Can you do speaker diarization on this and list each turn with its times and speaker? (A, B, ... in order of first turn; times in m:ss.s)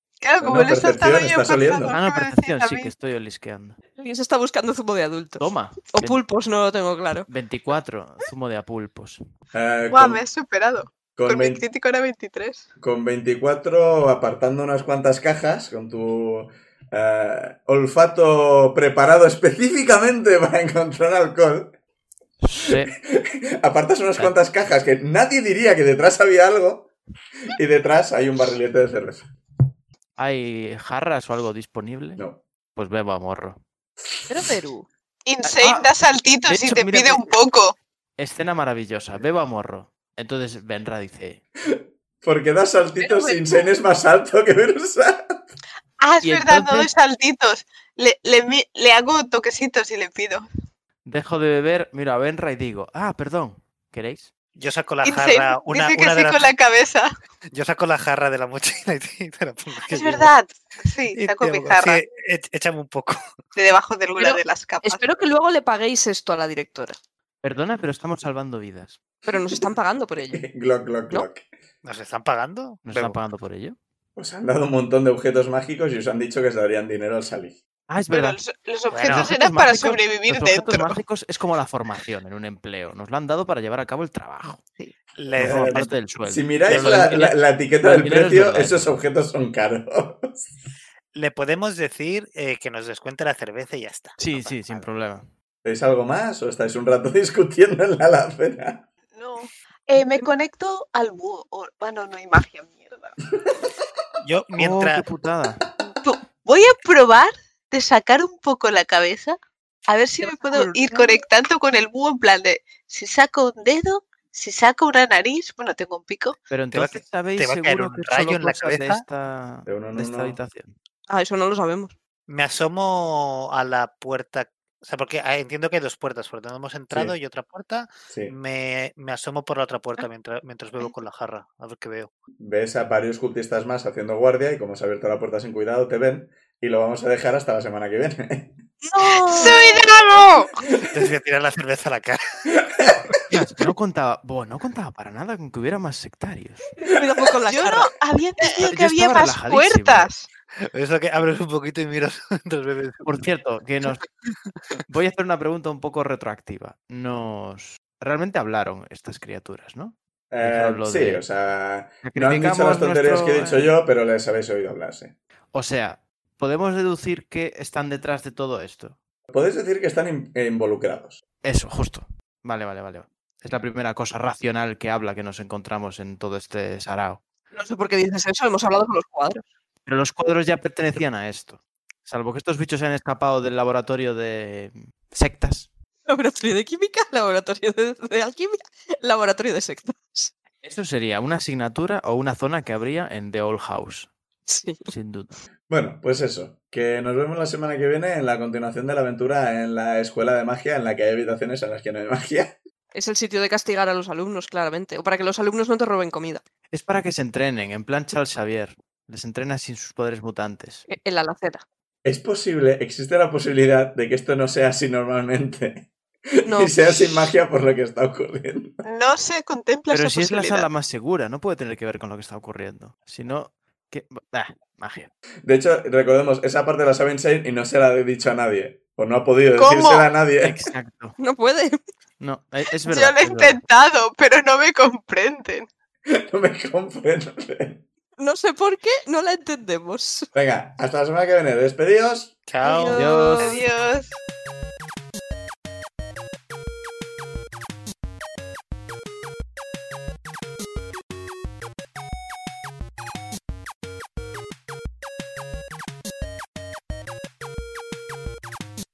0:00.2-0:02.9 A
0:00.4-0:01.9 B
0:01.9-0:03.8 C
0:04.0-0:07.3 D
0:05.4-0:06.2 C
0:07.3-0:09.2 C
0:09.5-0:10.2 B
0:09.9-0:12.7 A
0:11.2-0:11.6 B
0:12.8-0:21.7 B
0:22.4-0:22.9 C
0:23.0-0:26.9 B
0:27.5-0:29.3 B
0:30.2-0:32.2 C
0:32.7-0:33.6 C
0:34.3-0:34.9 D
0:35.2-0:37.7 A
0:35.4-0:35.9 C
0:36.4-0:37.4 C
0:38.2-0:41.4 C
0:41.7-0:45.5 B
0:43.0-0:43.5 A
0:46.0-0:50.4 A
0:46.2-0:46.9 C
0:51.0-0:54.3 C
0:54.6-0:56.5 E
0:55.0-0:57.1 A
0:57.5-1:00.3 E
0:59.9-1:02.0 A
1:01.2-1:03.2 E
1:03.5-1:05.0 A
1:04.2-1:07.0 D
1:07.4-1:09.0 C
1:09.3-1:10.4 D
1:10.3-1:11.4 B
1:11.8-1:13.2 E
1:12.8-1:13.8 C
1:14.2-1:17.6 B
1:17.9-1:18.4 C
1:18.1-1:21.0 A
1:18.9-1:19.3 E
1:19.0-1:24.6 C
1:24.6-1:24.9 D
1:25.2-1:26.0 E
1:25.3-1:28.8 C
1:25.4-1:30.5 B
1:26.7-1:27.0 E
1:31.1-1:34.8 E
1:34.2-1:35.3 C
1:35.6-1:38.8 B
1:39.1-1:43.2 A
1:44.2-1:45.0 E
1:44.6-1:45.6 C
1:45.8-1:56.4 A
1:50.2-1:51.2 D
1:56.5-2:00.7 C
1:56.7-1:59.0 E
1:59.6-2:00.4 B
2:01.1-2:01.9 D
2:02.3-2:12.1 E
2:12.4-2:18.5 B
2:18.8-2:19.8 D
2:19.0-2:20.6 A
2:20.9-2:22.5 E
2:22.7-2:23.0 B
2:23.3-2:26.7 C
2:26.8-2:27.9 D
2:27.4-2:30.3 A
2:28.6-2:30.1 C
2:30.6-2:33.2 E
2:33.0-2:34.1 C
2:34.9-2:41.2 C
2:40.3-2:45.1 B
2:42.0-2:43.7 C
2:45.5-2:49.0 C
2:49.3-2:51.2 B
2:51.4-2:57.2 C
2:57.5-2:59.4 D
2:59.8-3:05.7 C
3:06.0-3:10.3 D
3:10.6-3:14.1 C
3:14.5-3:14.9 D
3:14.9-3:15.4 C
3:15.7-3:22.5 B
3:22.9-3:26.4 D
3:26.7-3:30.8 C
3:30.9-3:31.6 D
3:32.0-3:38.8 B
3:36.4-3:37.3 D
3:38.8-3:40.7 A
3:39.9-3:45.1 C
3:45.4-3:50.6 B
3:49.6-3:50.1 A
3:50.4-3:51.2 C
3:51.2-3:51.8 D
3:52.2-3:53.6 C
3:52.8-3:55.7 A
3:56.1-3:57.8 B
3:58.2-4:00.3 D
4:00.3-4:02.4 B
4:02.5-4:03.1 E
4:02.6-4:03.6 D
4:02.9-4:03.6 C
4:03.4-4:04.2 A